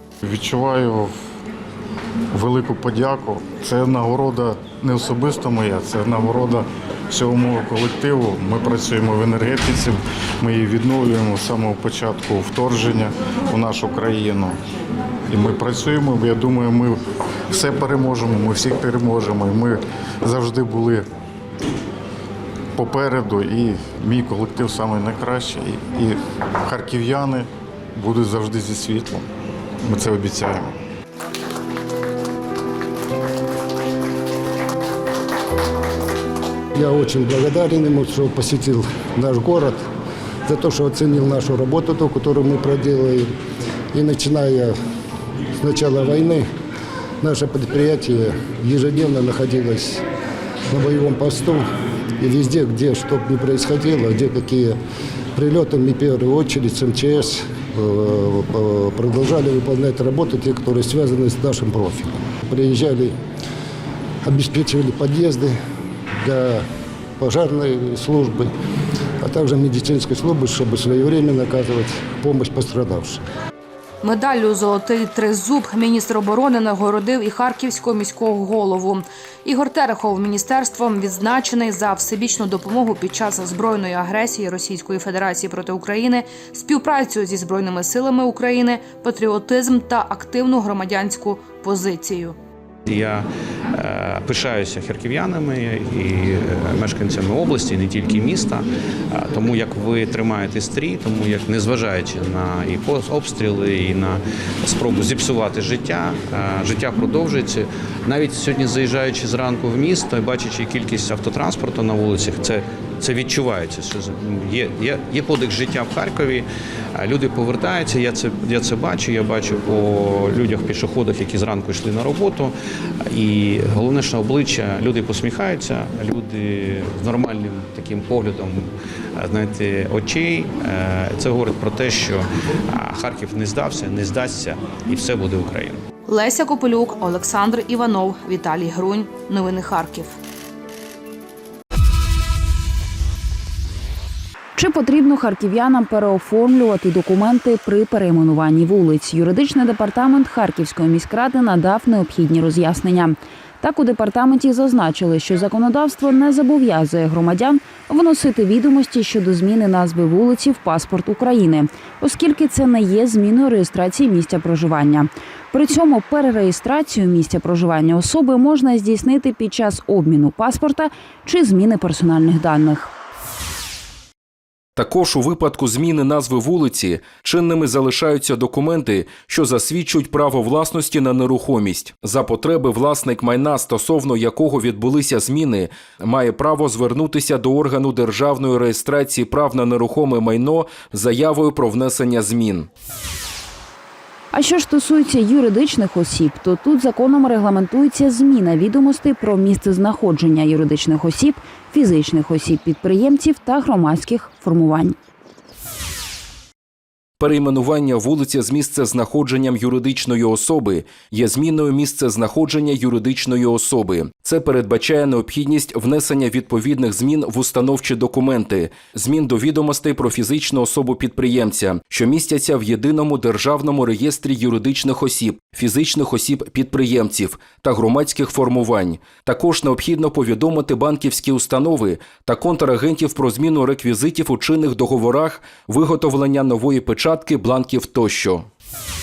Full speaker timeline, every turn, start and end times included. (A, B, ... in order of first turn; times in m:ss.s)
0:00.3-0:01.1 A
0:02.4-0:14.6 A
0:15.3-0:17.0 A
0:17.5-0:21.1 A
0:22.8-0:27.5 A
0:28.0-0:29.2 A
0:29.9-0:30.7 A
0:36.8-0:39.8 B
0:40.5-0:43.3 B
0:43.9-0:44.8 B
0:45.6-0:46.5 B
0:47.2-0:50.0 B
0:50.7-0:51.7 B
0:52.2-0:54.8 B
0:55.4-1:03.2 B
1:04.2-1:05.6 B
1:06.2-1:06.7 B
1:07.2-1:08.5 B
1:09.2-1:13.2 B
1:14.0-1:32.4 C
1:32.9-2:02.5 D
2:03.1-2:15.8 D
2:16.1-2:20.2 C
2:24.6-2:52.9 E
2:54.8-3:12.7 F
3:14.3-3:25.0 E
3:27.2-3:58.5 F